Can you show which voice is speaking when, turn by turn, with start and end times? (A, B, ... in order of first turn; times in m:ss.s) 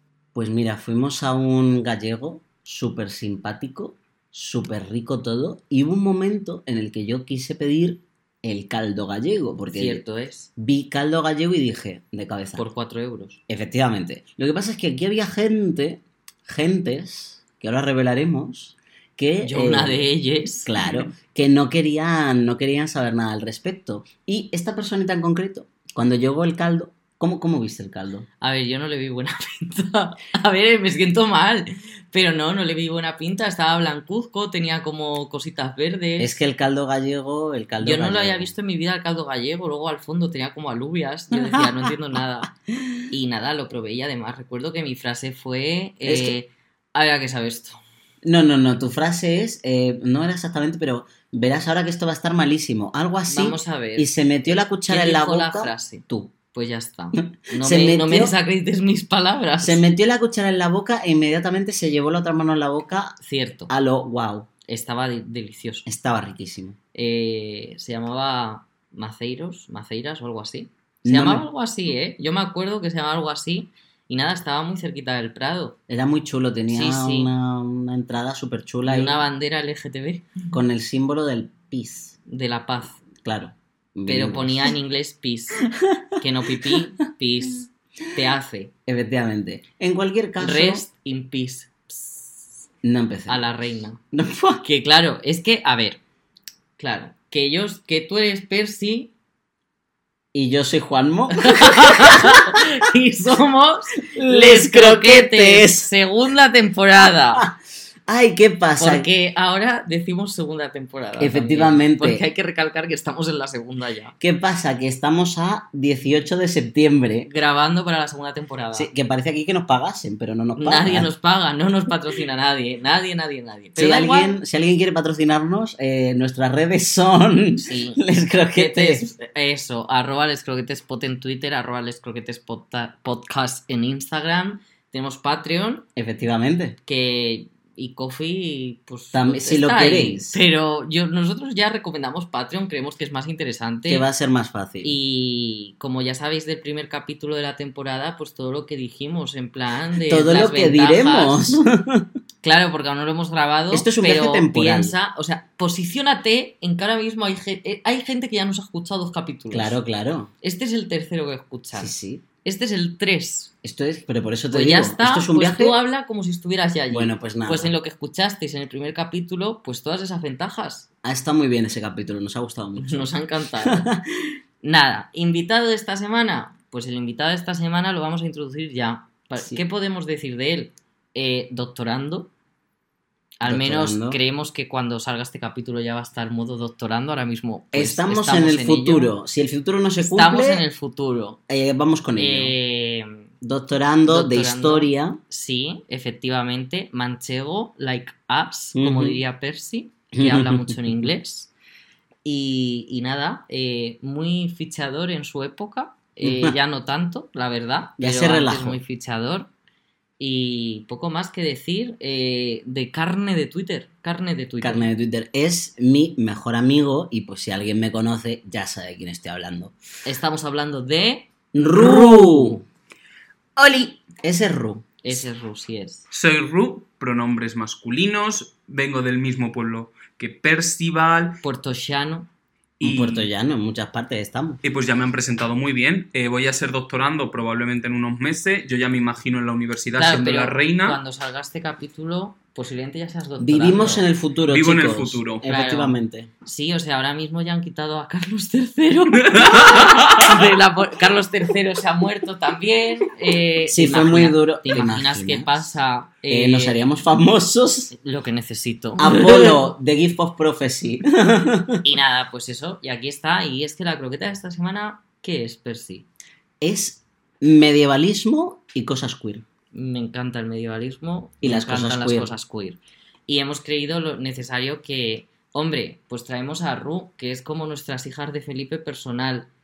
0:00.3-0:10.0 A
0:09.7-0:10.5 B
0:10.6-0:12.6 A
0:12.6-0:13.4 B
0:13.5-0:20.1 A
0:19.4-0:20.7 B
0:20.6-0:28.2 A
0:28.4-0:36.3 B
0:36.2-0:38.5 A
0:37.8-0:42.5 B
0:41.3-0:41.7 A
0:43.1-0:47.8 B
0:46.0-0:46.3 A
0:48.2-0:56.3 A
0:53.2-0:59.8 B
0:57.2-0:58.3 A
0:59.6-1:03.2 A
1:03.2-1:03.7 B
1:03.7-1:04.5 A
1:04.7-1:05.8 B
1:05.8-1:06.8 A
1:06.9-1:15.8 B
1:11.0-1:11.4 A
1:15.9-1:19.2 A
1:16.7-1:17.3 B
1:18.8-1:20.4 B
1:20.5-1:22.2 A
1:22.3-1:23.0 B
1:23.2-1:24.7 A
1:24.1-1:25.6 B
1:25.8-1:26.0 A
1:26.2-1:28.7 B
1:28.9-1:30.8 A
1:30.4-1:32.6 B
1:32.8-1:33.4 A
1:33.3-1:34.0 B
1:34.1-1:34.6 A
1:34.6-1:36.0 B
1:36.8-1:39.1 B
1:40.3-1:42.6 A
1:41.4-1:47.5 B
1:44.1-1:45.9 A
1:48.1-1:49.1 A
1:48.8-1:54.1 B
1:51.2-1:52.2 A
1:54.2-1:57.3 A
1:57.2-1:58.9 B
1:58.7-2:01.1 A
2:00.6-2:04.4 B
2:03.8-2:09.1 A
2:07.6-2:08.0 B
2:08.5-2:15.8 B
2:16.0-2:16.8 A
2:16.8-2:24.1 B
2:19.1-2:20.4 A
2:23.9-2:24.9 A
2:24.8-2:31.6 B
2:30.1-2:32.1 A
2:32.4-2:39.8 B
2:33.7-2:34.9 A
2:39.5-2:40.3 A
2:40.4-2:43.5 B
2:41.7-2:42.2 A
2:43.6-2:45.8 A
2:44.5-2:50.9 B
2:46.9-2:47.7 A
2:51.0-2:53.1 A
2:52.8-2:53.9 B
2:53.6-2:54.0 A
2:54.6-3:02.3 B
2:59.4-2:59.6 A
3:03.4-3:09.1 B
3:03.4-3:04.2 A
3:07.7-3:10.6 A
3:10.0-3:11.4 B
3:11.5-3:12.5 A
3:12.2-3:13.2 B
3:13.4-3:15.2 A
3:14.1-3:21.5 B
3:18.7-3:19.2 A
3:20.1-3:20.8 A
3:22.2-3:29.5 B
3:26.2-3:26.6 A
3:28.0-3:28.8 A
3:30.2-3:34.9 B
3:34.6-3:39.7 A
3:40.0-3:42.6 B
3:41.5-3:42.6 A
3:43.6-3:45.2 A
3:45.0-3:46.1 B
3:46.1-3:51.4 C
3:51.4-3:52.3 B
3:52.8-3:53.3 C
3:52.8-3:54.6 A
3:54.6-4:01.0 C
4:00.0-4:04.1 B
4:03.4-4:06.3 A
4:04.5-4:05.4 C
4:05.4-4:16.8 B
4:09.2-4:10.2 C
4:13.7-4:15.6 A
4:16.3-4:17.9 A
4:17.9-4:19.6 B
4:19.0-4:21.8 A
4:21.8-4:26.0 B
4:26.6-4:29.4 A
4:29.7-4:39.5 B
4:31.4-4:32.3 A